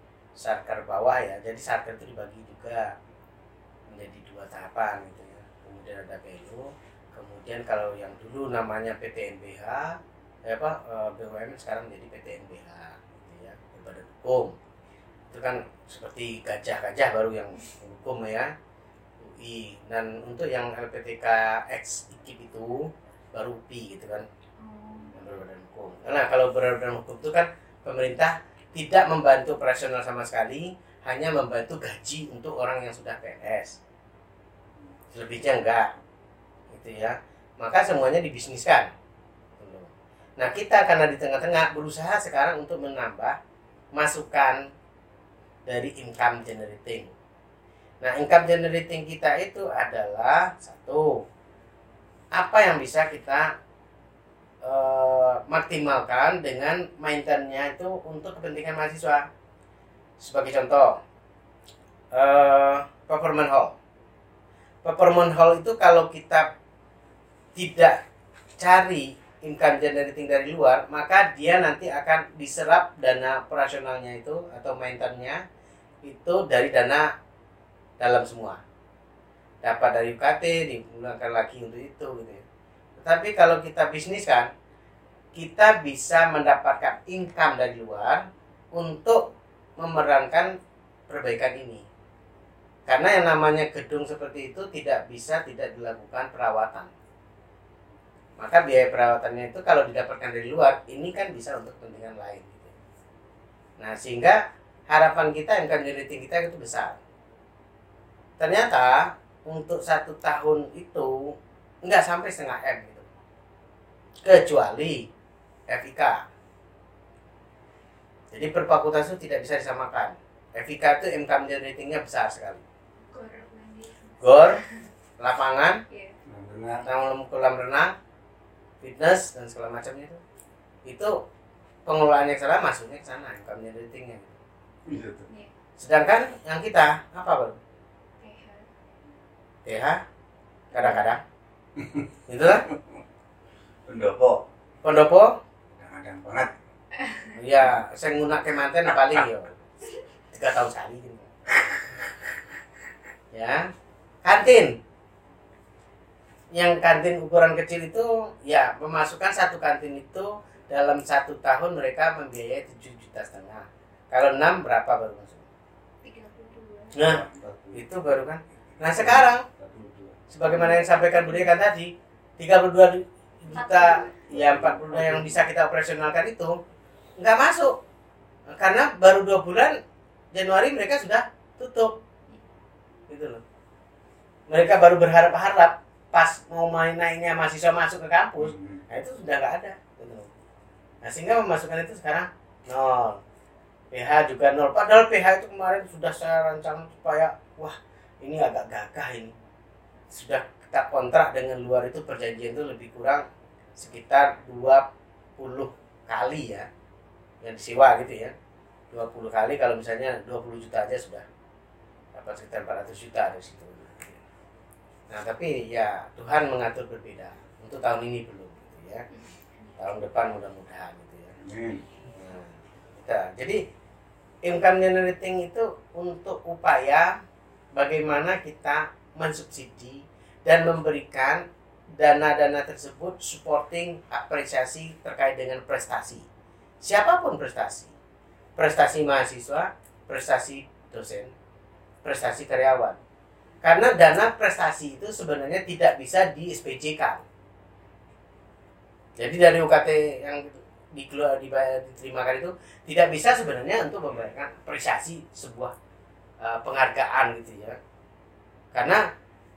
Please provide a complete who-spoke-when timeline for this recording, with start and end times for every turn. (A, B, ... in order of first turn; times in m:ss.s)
0:00.4-0:02.9 A
0:03.9-0:14.6 A
0:15.3-0:18.5 A
0:19.2-0:24.3 A
0:24.6-0:25.3 B
0:25.1-0:33.8 A
0:35.1-0:35.9 A
0:36.7-0:38.9 A
0:39.6-0:43.4 A
0:44.0-0:44.6 A
0:45.7-0:47.2 A
0:48.0-0:51.2 A
0:52.4-0:53.5 A
0:54.6-0:59.3 A
1:00.2-1:01.0 A
1:02.1-1:03.8 A
1:04.8-1:06.5 A
1:07.6-1:08.0 A
1:08.6-1:15.4 A
1:16.0-1:17.1 A
1:18.0-1:18.6 A
1:19.6-1:22.4 A
1:23.0-1:24.5 A
1:25.3-1:29.3 A
1:29.8-1:30.5 A
1:31.1-1:31.9 A
1:32.9-1:36.9 A
1:38.4-1:42.7 A
1:43.8-1:47.0 A
1:48.4-1:51.3 A
1:51.8-1:53.1 A
1:54.2-1:55.1 A
1:55.7-1:56.2 A
1:58.3-2:02.6 A
2:03.0-2:04.9 B
2:04.2-2:04.6 A
2:05.2-2:05.8 A
2:05.9-2:06.2 B
2:06.3-2:06.9 C
2:06.9-2:07.9 A
2:08.8-2:10.2 A
2:10.9-2:11.2 A
2:11.9-2:14.4 A
2:14.9-2:15.3 C
2:15.8-2:17.6 A
2:18.2-2:18.7 B
2:19.7-2:20.0 A
2:20.7-2:21.2 A
2:20.8-2:21.2 B
2:21.8-2:23.0 C
2:22.3-2:22.6 A
2:23.9-2:24.5 C
2:24.8-2:25.4 A
2:25.7-2:26.6 C
2:27.0-2:27.3 B
2:27.4-2:29.6 A
2:29.0-2:29.3 C
2:30.3-2:31.3 A
2:33.3-2:33.7 A
2:34.2-2:34.8 A
2:36.5-2:45.5 A
2:46.0-2:47.0 B
2:47.0-2:49.4 A
2:47.0-2:47.9 C
2:48.8-2:50.2 C
2:50.3-2:56.6 A
2:50.5-2:51.5 B
2:53.5-2:54.2 B
2:54.3-2:55.4 C
2:57.2-2:57.8 A
2:58.5-2:59.8 A
3:00.3-3:02.0 A
3:03.1-3:03.4 A
3:04.5-3:10.3 A
3:08.4-3:08.8 C
3:11.0-3:13.2 A
3:13.9-3:19.4 A
3:20.1-3:24.9 A
3:25.4-3:26.7 A
3:27.4-3:28.3 A
3:28.9-3:31.3 A
3:32.1-3:34.2 A
3:35.1-3:39.1 A
3:39.2-3:39.8 B
3:39.8-3:41.4 A
3:41.4-3:41.8 C
3:42.2-3:43.6 A
3:44.4-3:47.1 A
3:47.8-3:51.4 A
3:52.0-3:56.3 A
3:56.8-3:58.0 A
3:58.6-4:01.3 A
4:02.0-4:03.0 A
4:03.6-4:07.2 A
4:09.2-4:15.7 A
4:16.4-4:17.8 A
4:18.7-4:19.0 A